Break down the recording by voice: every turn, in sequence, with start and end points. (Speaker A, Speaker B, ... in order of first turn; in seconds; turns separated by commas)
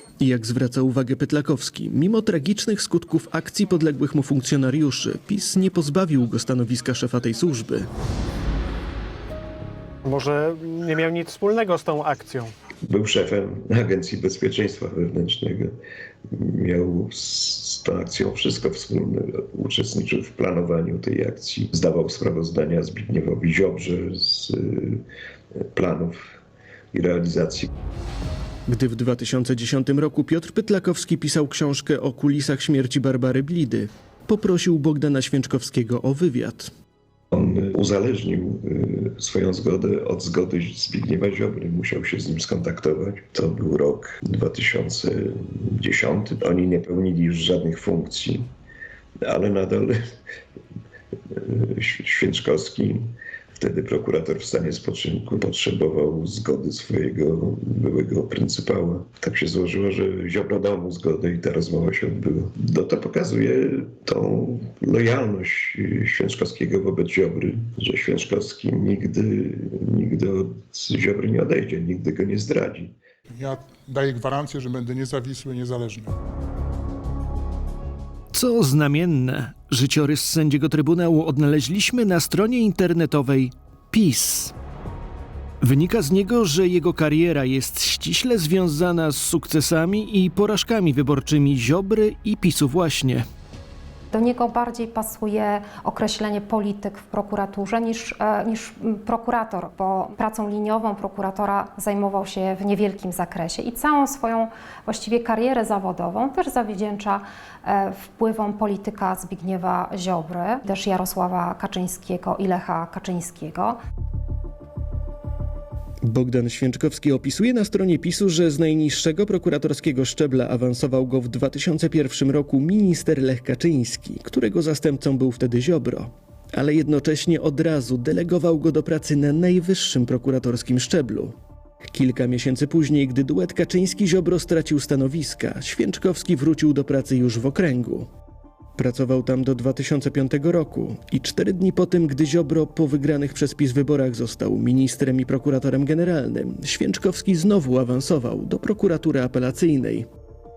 Speaker A: 0.2-7.9, Speaker B: 10.0-12.5, Speaker C: 12.8-15.8, Speaker C: 16.3-26.4, Speaker C: 26.9-27.7, Speaker A: 28.7-36.7, Speaker C: 37.3-48.5, Speaker C: 49.2-50.0, Speaker C: 51.3-73.0, Speaker D: 73.3-76.1, Speaker A: 78.3-84.5, Speaker A: 85.6-93.2, Speaker E: 94.1-113.8, Speaker A: 116.0-131.3, Speaker A: 131.8-138.1, Speaker A: 138.8-150.1